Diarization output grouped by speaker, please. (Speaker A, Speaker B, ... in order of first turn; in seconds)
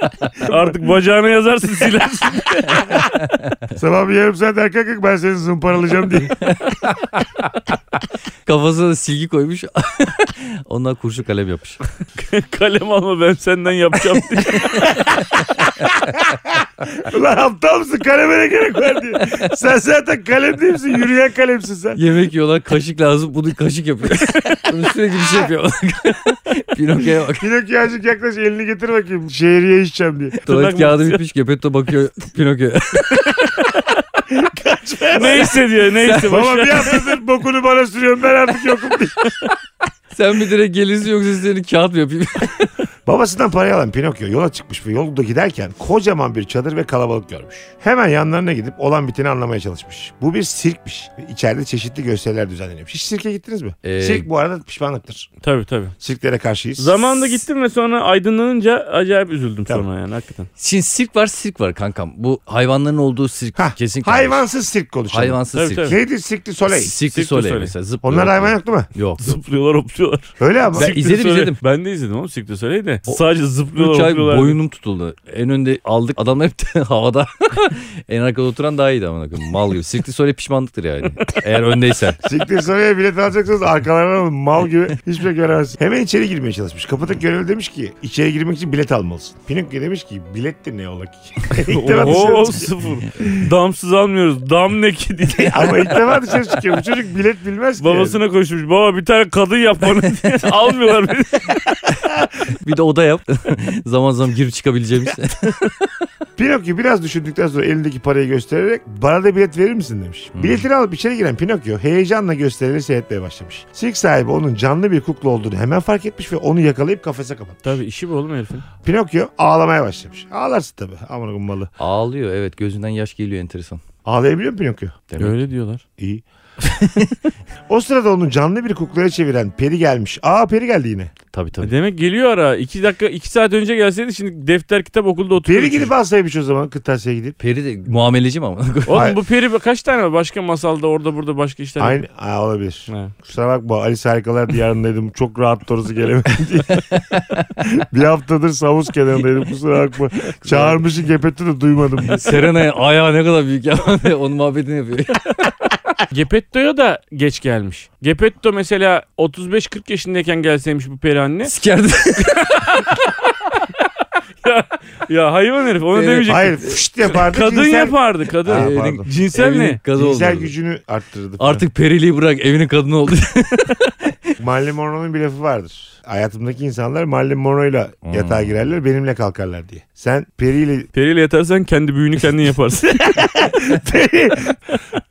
Speaker A: 0.4-3.0, 12.2-15.2, 30.5-31.2, 35.1-37.0, 55.4-56.0, 56.8-60.5, 65.5-66.0, 67.1-67.7, 69.2-74.6, 91.7-96.3, 97.8-101.9, 117.7-118.7, 125.2-125.8, 131.6-135.9, 138.9-142.0, 142.9-143.1, 156.1-161.6, 162.2-163.4, 164.4-169.8, 180.9-183.2
Speaker B: 2.8-3.5, 6.5-7.2, 8.4-11.8, 14.5-14.9, 22.0-27.5, 30.4-33.8, 35.2-36.4, 40.1-42.7, 53.8-54.3, 60.6-64.5, 65.1-66.0, 66.7-69.4, 70.7-71.6, 73.8-82.2, 102.4-106.1, 110.3-110.7, 121.8-123.8, 125.1-125.4, 126.7-127.1, 131.3-131.8, 137.4-139.1, 146.6-147.5, 150.4-150.8, 152.0-155.5, 161.4-162.8, 165.9-166.8, 168.4-170.5, 171.4-174.2, 178.1-178.6
Speaker C: 3.8-6.5, 15.8-22.0, 27.4-30.4, 34.3-35.6, 36.2-39.3, 43.1-55.3, 56.0-57.4, 63.5-66.9, 68.0-68.9, 70.4-70.9, 82.2-93.5, 95.4-98.2, 106.4-117.8, 118.8-121.7, 124.0-125.0, 126.0-126.2, 127.7-131.1, 135.4-137.4, 138.9-139.2, 141.8-152.5, 166.3-169.2, 169.9-171.7, 174.4-180.9, 182.9-184.8